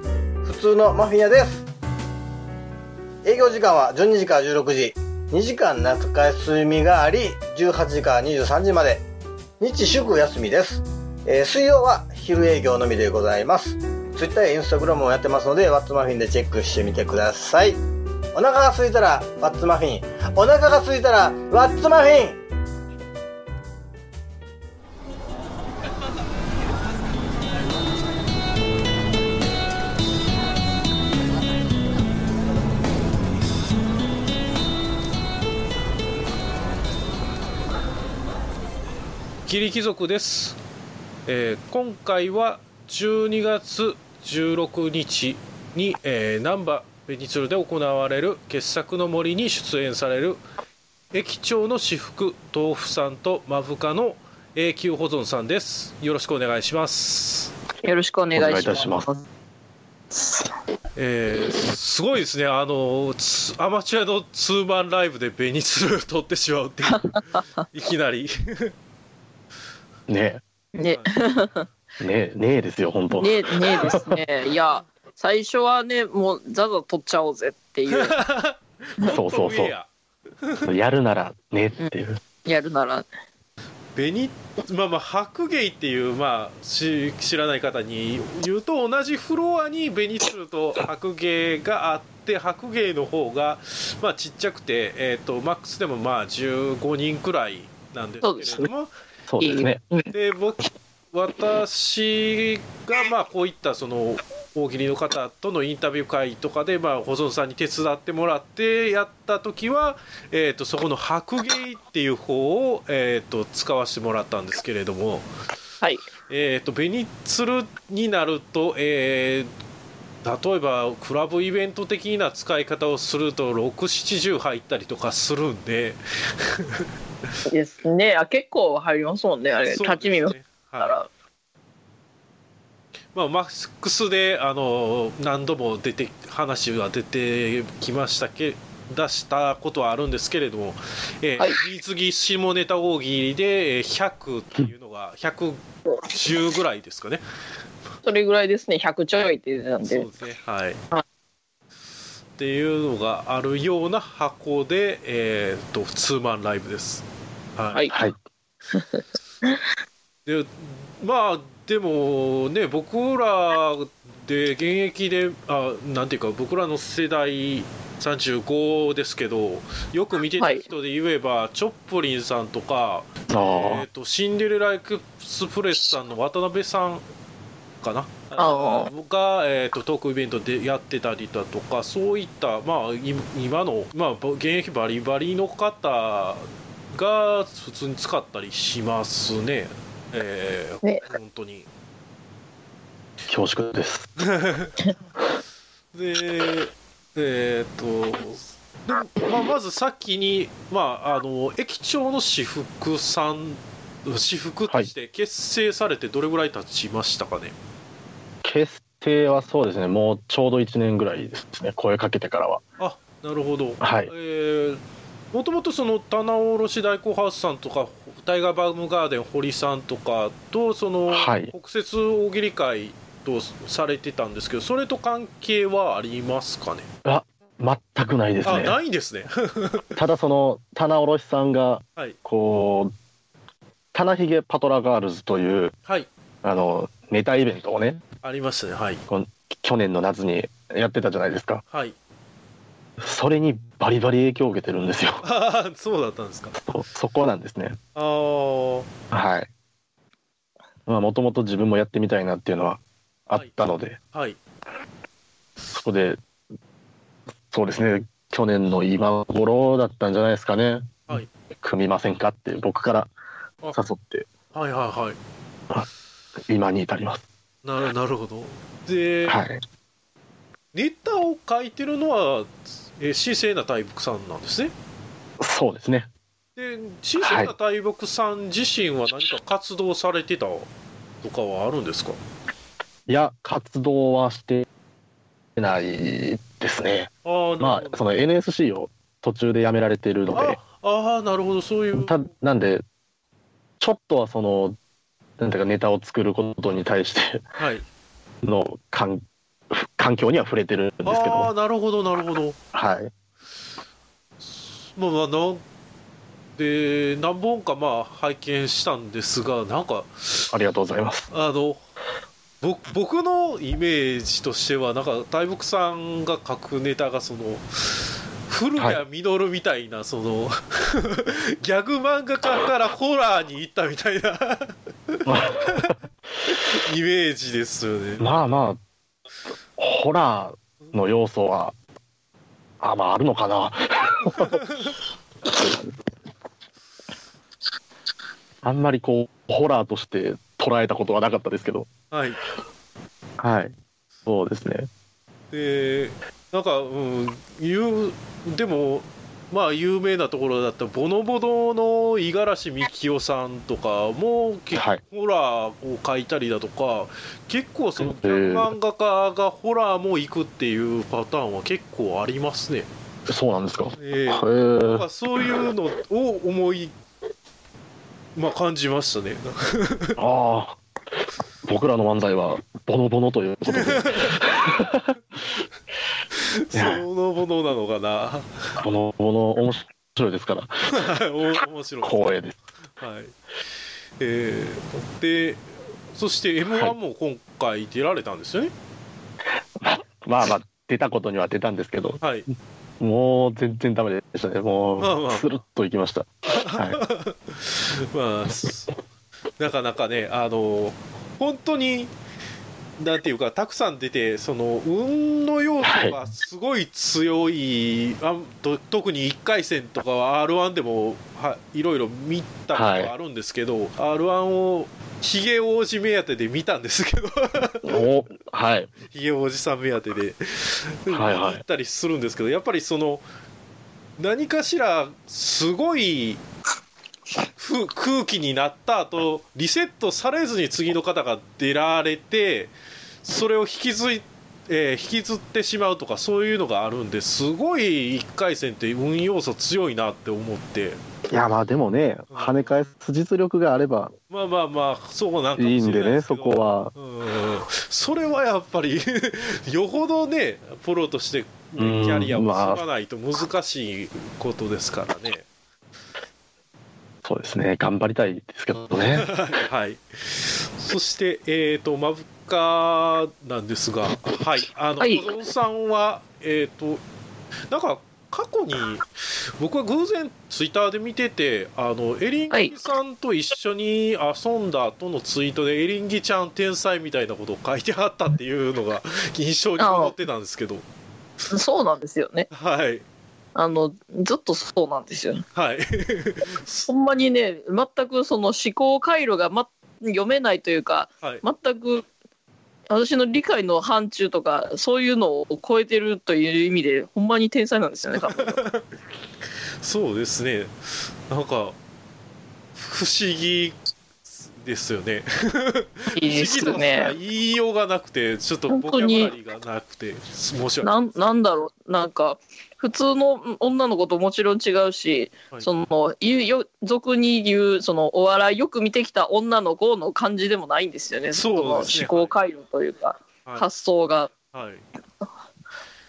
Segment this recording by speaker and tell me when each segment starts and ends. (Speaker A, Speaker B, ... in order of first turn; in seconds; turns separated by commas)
Speaker A: 0.4-1.6, Speaker A: 3.2-9.1, Speaker A: 9.6-17.8, Speaker A: 18.3-22.4, Speaker B: 39.5-40.6, Speaker B: 41.3-50.4, Speaker B: 51.1-57.5, Speaker C: 57.8-59.2, Speaker D: 58.3-59.1, Speaker C: 60.1-60.5, Speaker B: 61.0-68.7, Speaker C: 67.0-67.4, Speaker D: 70.1-70.4, Speaker C: 70.8-71.7, Speaker D: 72.0-74.2, Speaker C: 73.2-78.1, Speaker B: 77.9-79.9, Speaker D: 79.0-79.7, Speaker B: 80.4-80.7, Speaker D: 80.7-82.2, Speaker C: 82.4-83.1, Speaker B: 83.9-98.9, Speaker C: 98.2-98.7, Speaker D: 99.3-99.8, Speaker C: 99.4-100.1, Speaker B: 100.1-115.3, Speaker C: 115.8-116.1, Speaker B: 116.3-119.5, Speaker B: 120.2-126.9, Speaker C: 127.5-131.1, Speaker B: 129.7-130.9, Speaker B: 133.1-147.2, Speaker C: 148.0-150.1, Speaker B: 149.8-150.8, Speaker B: 152.4-157.8, Speaker C: 158.7-159.6, Speaker B: 160.2-177.0, Speaker C: 170.4-170.6, Speaker D: 173.3-173.8, Speaker B: 177.8-191.7, Speaker C: 178.4-178.9, Speaker D: 193.3-194.1, Speaker B: 194.2-194.7, Speaker B: 195.9-207.6, Speaker D: 208.4-212.6, Speaker B: 212.8-226.9, Speaker D: 213.8-214.1, Speaker D: 221.1-221.5, Speaker D: 227.0-228.8, Speaker B: 228.4-230.0, Speaker D: 229.9-232.9, Speaker D: 233.9-235.7, Speaker D: 236.4-238.0, Speaker B: 238.2-239.0, Speaker D: 239.1-241.6, Speaker B: 241.7-241.9, Speaker D: 243.0-245.2, Speaker B: 245.2-246.6, Speaker D: 246.6-247.8, Speaker B: 247.9-248.9, Speaker D: 249.1-249.5, Speaker D: 250.9-254.0, Speaker B: 254.1-254.4, Speaker D: 255.7-256.2, Speaker D: 257.5-263.1, Speaker D: 263.7-264.3, Speaker B: 264.5-265.2, Speaker D: 266.5-267.2, Speaker B: 267.6-269.4, Speaker D: 269.2-269.6, Speaker B: 270.7-274.7, Speaker D: 275.4-276.1, Speaker B: 276.6-280.7, Speaker D: 277.2-277.5, Speaker B: 281.2-282.2, Speaker D: 283.1-284.7, Speaker D: 285.6-290.6, Speaker B: 287.2-288.1, Speaker B: 290.3-292.2, Speaker D: 292.0-292.8, Speaker D: 293.8-294.8, Speaker D: 295.4-297.4, Speaker B: 297.6-297.9, Speaker D: 298.4-301.5, Speaker B: 301.0-302.6, Speaker D: 302.7-303.1, Speaker B: 304.4-305.6, Speaker B: 306.6-310.5, Speaker D: 310.5-311.3, Speaker B: 311.3-311.8, Speaker B: 312.6-328.6, Speaker D: 325.2-325.9, Speaker D: 328.2-328.8, Speaker D: 329.8-331.7, Speaker D: 332.8-334.6, Speaker B: 334.4-334.9, Speaker D: 335.5-335.9, Speaker D: 338.6-341.9, Speaker B: 342.1-342.4, Speaker D: 343.4-343.7, Speaker D: 344.2-344.9, Speaker B: 345.5-362.9, Speaker D: 354.7-355.0, Speaker D: 358.0-358.7, Speaker D: 363.3-365.1, Speaker B: 364.0-366.9, Speaker B: 368.3-370.2, Speaker D: 370.2-370.8, Speaker D: 371.6-375.1, Speaker B: 373.7-374.4, Speaker B: 376.3-378.8, Speaker D: 376.7-377.0, Speaker D: 378.8-380.7, Speaker B: 380.9-382.2, Speaker D: 382.0-382.6, Speaker B: 383.0-383.3, Speaker B: 384.2-388.7, Speaker D: 389.8-392.2, Speaker B: 392.2-392.5, Speaker D: 393.0-397.0, Speaker B: 395.0-395.5, Speaker B: 396.6-399.0, Speaker B: 399.6-402.1, Speaker B: 403.0-418.0, Speaker D: 405.8-406.2, Speaker D: 412.7-413.1, Speaker D: 417.8-418.9, Speaker B: 419.1-423.2, Speaker D: 421.1-421.6, Speaker B: 424.2-426.4, Speaker B: 427.6-441.0, Speaker D: 441.3-444.1, Speaker B: 442.3-442.7, Speaker B: 444.3-455.5, Speaker D: 445.6-446.9, Speaker D: 451.8-452.8, Speaker D: 457.2-459.3, Speaker B: 458.9-467.0, Speaker C: 465.0-465.3, Speaker B: 467.7-480.8, Speaker C: 479.8-480.1, Speaker C: 481.5-482.5, Speaker B: 482.5-483.0, Speaker C: 483.5-485.4, Speaker B: 485.5-486.9, Speaker C: 486.9-492.1, Speaker C: 492.9-498.6, Speaker B: 498.2-498.8, Speaker B: 499.8-501.8, Speaker B: 502.7-510.9, Speaker C: 506.1-507.1, Speaker C: 508.7-509.3, Speaker C: 510.8-524.3, Speaker B: 521.3-522.3, Speaker B: 524.5-524.8